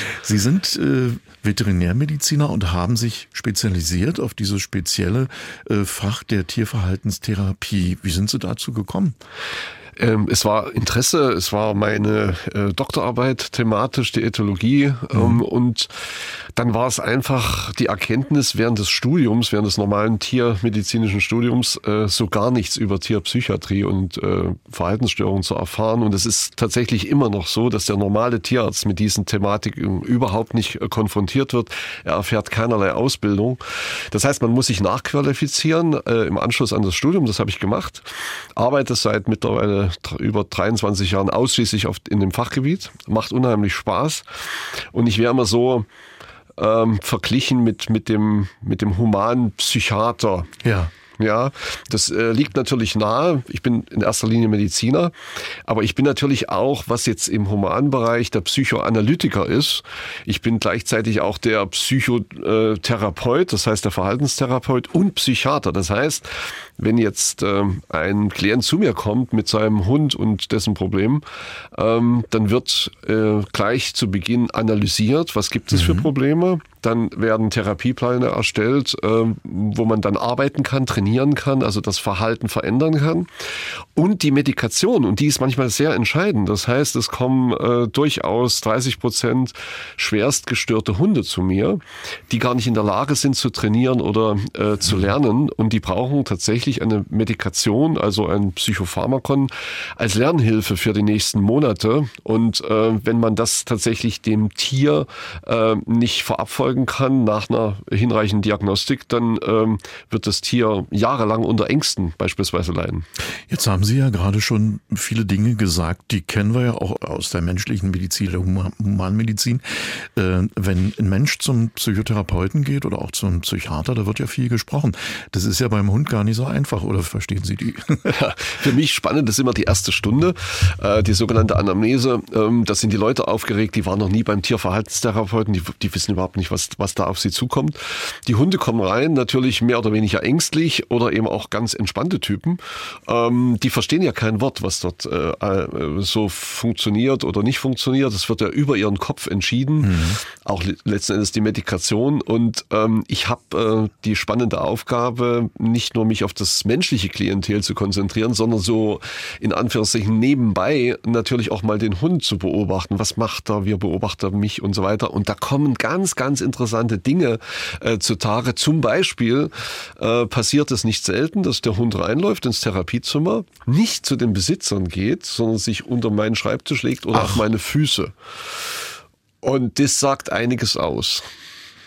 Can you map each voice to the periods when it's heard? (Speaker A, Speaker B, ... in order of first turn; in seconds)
Speaker A: 0.1-9.2, 15.1-15.4, 50.6-50.9, 75.7-76.1, 113.5-128.1, 149.8-150.2
Speaker B: 10.0-15.9, 16.6-45.9, 46.6-50.6, 51.2-55.1, 55.7-83.3, 84.0-113.1, 128.1-178.1, 179.4-181.2